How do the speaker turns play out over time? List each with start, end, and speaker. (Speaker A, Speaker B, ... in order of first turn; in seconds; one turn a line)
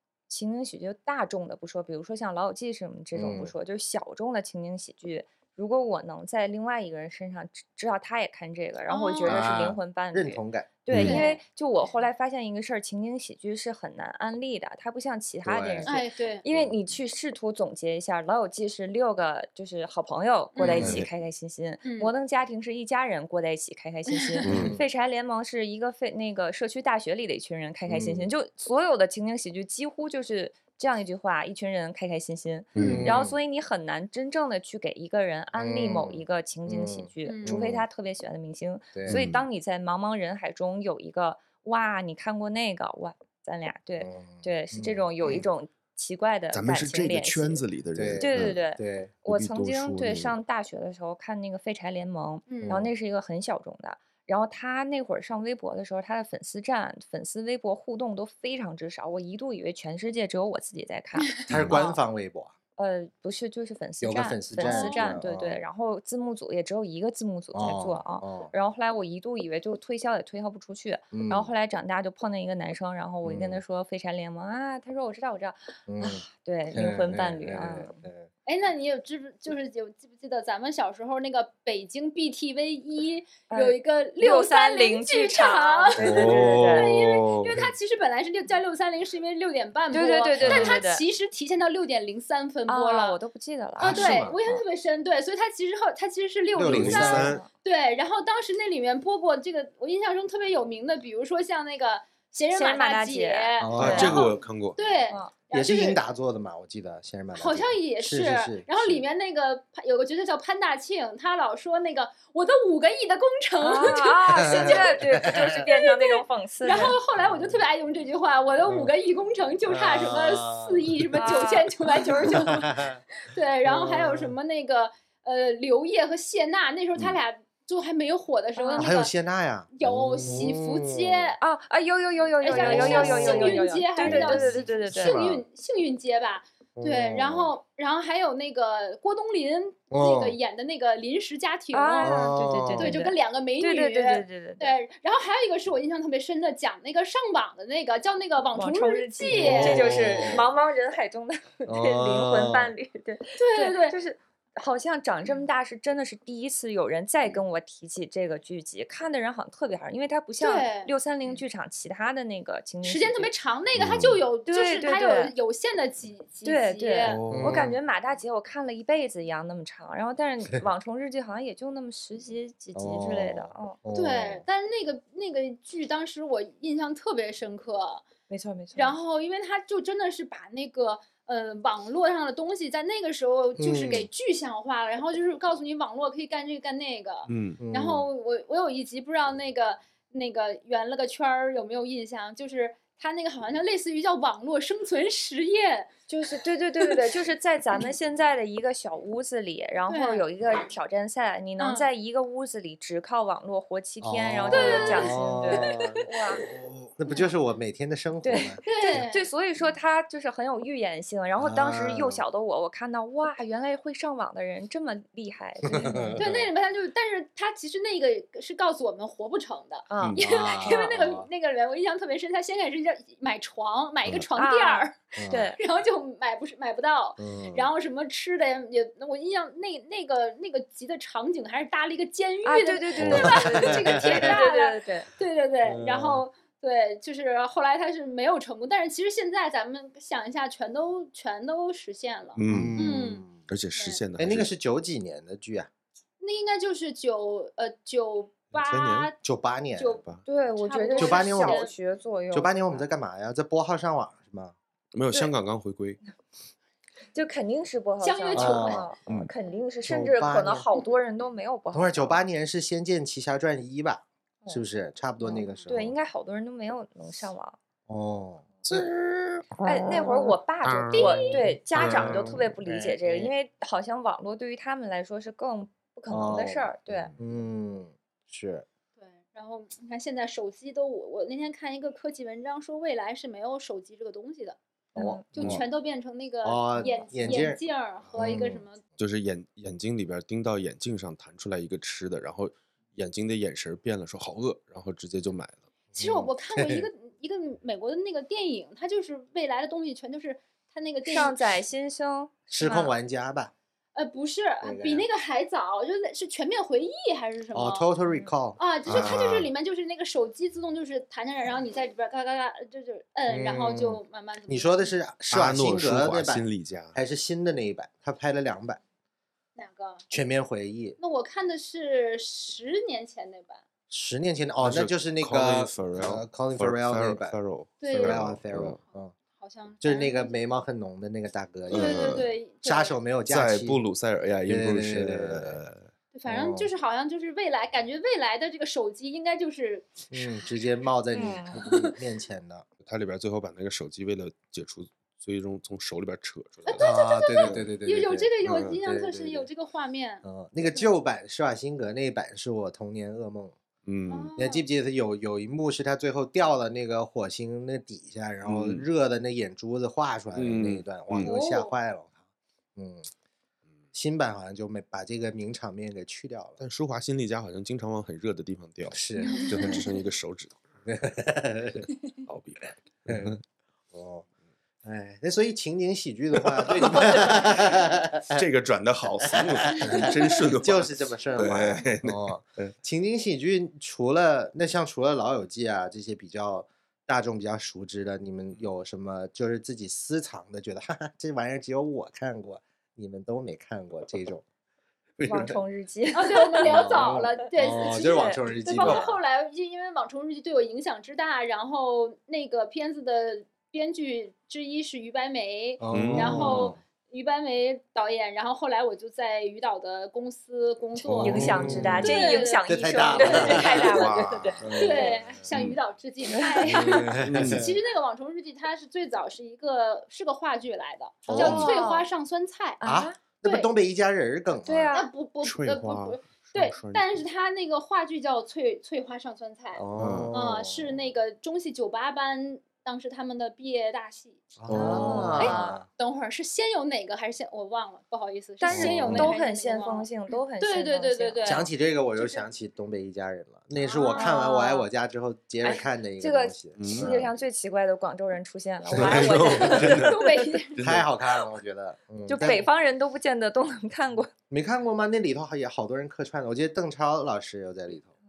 Speaker A: 0.3-47.6
Speaker B: 3.1-3.5
Speaker C: 8.9-9.5
Speaker B: 9.2-11.2
Speaker D: 10.9-11.2
Speaker C: 10.9-11.4
Speaker B: 15.4-16.0
Speaker C: 15.9-16.4
Speaker C: 20.6-21.0
Speaker B: 20.7-21.1
Speaker D: 20.7-21.1
Speaker C: 21.8-22.1
Speaker C: 24.1-24.6
Speaker D: 24.4-24.8
Speaker B: 24.4-24.9
Speaker B: 27.9-28.3
Speaker D: 32.8-33.2
Speaker B: 32.8-33.4
Speaker B: 35.5-37.9
Speaker C: 37.3-37.6
Speaker B: 38.9-39.2
Speaker D: 39.1-39.5
Speaker B: 44.0-45.5
Speaker D: 46.5-48.6
Speaker B: 48.0-49.2
Speaker A: 48.2-62.0
Speaker D: 49.3-50.3
Speaker C: 52.5-52.8
Speaker B: 52.6-52.9
Speaker C: 61.2-61.9
Speaker B: 61.5-62.5
Speaker D: 61.5-61.8
Speaker A: 62.8-78.0
Speaker B: 64.0-65.6
Speaker C: 64.6-65.1
Speaker B: 67.5-68.5
Speaker B: 71.1-71.5
Speaker B: 73.2-73.6
Speaker B: 75.9-78.3
Speaker C: 78.5-93.2
Speaker A: 83.5-87.0
Speaker D: 86.0-87.6
Speaker A: 89.9-91.0
Speaker B: 90.4-90.8
Speaker A: 92.7-94.6
Speaker B: 93.8-94.4
Speaker C: 93.8-106.0
Speaker B: 96.5-97.3
Speaker D: 96.6-97.4
Speaker A: 97.0-97.5
Speaker A: 102.5-104.2
Speaker B: 103.6-104.3
Speaker D: 103.8-104.8
Speaker B: 105.5-109.0
Speaker C: 107.4-129.1
Speaker A: 113.6-117.0
Speaker B: 114.4-115.6
Speaker B: 116.8-117.6
Speaker B: 118.6-118.9
Speaker B: 119.7-121.4
Speaker A: 121.2-121.7
Speaker B: 122.1-123.0
Speaker B: 123.6-124.4
Speaker A: 128.6-128.9
Speaker B: 128.8-131.3
Speaker C: 129.7-131.4
Speaker A: 131.4-135.2
Speaker C: 132.4-149.8
Speaker B: 132.5-135.4
Speaker B: 136.8-137.5
Speaker B: 139.9-140.4
Speaker A: 141.7-144.7
Speaker B: 142.0-143.0
Speaker A: 148.6-163.3
Speaker B: 149.3-150.5
Speaker B: 151.7-152.7
Speaker C: 153.4-154.0
Speaker C: 160.4-160.9
Speaker C: 162.8-167.2
Speaker D: 163.8-164.1
Speaker B: 163.8-164.2
Speaker A: 164.5-165.3
Speaker A: 166.4-173.8
Speaker D: 167.2-167.6
Speaker B: 167.2-167.8
Speaker B: 172.8-174.4
Speaker C: 173.9-178.1
Speaker A: 178.3-179.0
Speaker C: 178.8-195.9
Speaker B: 183.6-184.1
Speaker D: 187.3-187.6
Speaker B: 187.6-188.1
Speaker A: 196.1-206.5
Speaker C: 199.9-200.3
Speaker C: 201.6-201.9
Speaker B: 204.0-209.1
Speaker C: 204.5-205.7
Speaker A: 208.2-216.2
Speaker C: 208.7-209.3
Speaker B: 211.4-212.2
Speaker B: 215.6-216.5
Speaker C: 216.2-244.0
Speaker A: 219.9-220.9
Speaker B: 220.2-221.3
Speaker A: 224.4-225.6
Speaker B: 225.2-225.5
Speaker B: 227.2-227.7
Speaker A: 232.4-235.1
Speaker D: 233.0-233.3
Speaker B: 233.0-234.4
Speaker B: 235.6-236.2
Speaker D: 242.4-242.8
Speaker B: 242.5-243.4
Speaker D: 243.5-244.5
Speaker B: 244.2-245.7
Speaker C: 246.2-249.2
Speaker D: 248.5-249.1
Speaker B: 249.2-250.0
Speaker C: 249.8-250.0
Speaker A: 250.3-252.8
Speaker C: 250.6-251.7
Speaker B: 251.0-251.6
Speaker B: 252.3-254.6
Speaker D: 254.9-256.0
Speaker A: 257.1-262.2
Speaker C: 258.0-258.9
Speaker B: 258.3-259.3
Speaker B: 259.8-260.7
Speaker B: 261.7-265.9
Speaker A: 265.2-267.6
Speaker B: 267.9-270.2
Speaker A: 269.6-277.1
Speaker D: 270.6-271.2
Speaker C: 270.9-271.4
Speaker B: 271.7-273.3
Speaker D: 271.8-272.3
Speaker B: 276.1-278.6
Speaker C: 279.0-284.6
Speaker B: 284.9-285.6
Speaker A: 285.0-285.3
Speaker C: 285.3-288.8
Speaker B: 286.4-287.6
Speaker A: 286.8-287.0
Speaker B: 288.1-288.6
Speaker D: 289.0-295.6
Speaker B: 295.9-296.9
Speaker C: 296.0-301.6
Speaker A: 301.1-302.9
Speaker B: 302.5-303.5
Speaker C: 303.9-307.9
Speaker B: 304.6-305.1
Speaker B: 307.5-309.4
Speaker A: 308.1-308.3
Speaker C: 308.6-314.9
Speaker D: 308.9-309.5
Speaker B: 313.3-318.8
Speaker D: 315.3-317.0
Speaker C: 319.6-320.1
Speaker B: 320.1-321.0
Speaker C: 321.0-323.6
Speaker B: 323.9-327.4
Speaker D: 324.6-328.8
Speaker C: 327.8-328.4
Speaker B: 327.9-329.1
Speaker C: 328.9-330.4
Speaker B: 329.8-333.8
Speaker D: 331.7-332.3
Speaker C: 331.7-333.0
Speaker D: 333.3-335.9
Speaker B: 334.5-335.6
Speaker C: 336.1-340.5
Speaker B: 336.3-336.7
Speaker B: 340.1-342.7
Speaker A: 341.1-341.6
Speaker C: 341.6-342.0
Speaker D: 342.8-347.7
Speaker C: 346.7-350.9
Speaker B: 346.8-349.5
Speaker D: 348.4-348.8
Speaker B: 350.2-353.6
Speaker D: 353.9-354.3
Speaker C: 354.1-354.7
Speaker B: 354.4-362.2
Speaker D: 358.4-358.9
Speaker D: 360.4-361.3
Speaker C: 361.2-361.7
Speaker B: 362.8-363.1
Speaker B: 363.9-366.6
Speaker D: 366.6-370.6
Speaker B: 368.9-369.8
Speaker C: 369.2-369.9
Speaker B: 370.9-371.9
Speaker D: 372.2-373.4
Speaker B: 373.1-373.4
Speaker B: 373.9-374.3
Speaker B: 374.8-378.4
Speaker D: 376.4-382.7
Speaker B: 379.2-394.4
Speaker C: 379.9-380.2
Speaker B: 395.2-395.6
Speaker A: 395.2-397.2
Speaker C: 396.1-414.0
Speaker B: 396.6-399.2
Speaker A: 398.0-399.0
Speaker B: 405.8-406.8
Speaker D: 405.9-406.7
Speaker B: 411.0-414.1
Speaker A: 411.2-415.1
Speaker D: 413.4-414.8
Speaker B: 414.6-415.6
Speaker C: 414.8-422.8
Speaker D: 415.5-415.8
Speaker A: 416.3-417.0
Speaker B: 416.6-417.8
Speaker D: 417.2-417.7
Speaker B: 421.2-421.7
Speaker A: 421.3-422.1
Speaker D: 421.4-421.7
Speaker A: 422.8-423.2
Speaker B: 422.8-425.0
Speaker C: 423.4-423.7
Speaker A: 424.6-425.1
Speaker C: 424.9-442.4
Speaker D: 425.4-427.2
Speaker B: 429.8-431.0
Speaker D: 430.0-430.3
Speaker B: 434.6-435.9
Speaker A: 434.7-435.8
Speaker D: 434.8-435.5
Speaker A: 438.6-441.7
Speaker B: 438.7-439.3
Speaker D: 438.7-439.3
Speaker B: 441.4-447.3
Speaker C: 443.8-444.5
Speaker A: 444.1-444.9
Speaker A: 445.6-450.6
Speaker D: 446.8-447.2
Speaker B: 448.9-450.1
Speaker D: 448.9-450.1
Speaker C: 449.2-450.8
Speaker D: 450.8-451.1
Speaker B: 450.8-452.7
Speaker A: 452.3-454.3
Speaker B: 454.5-458.1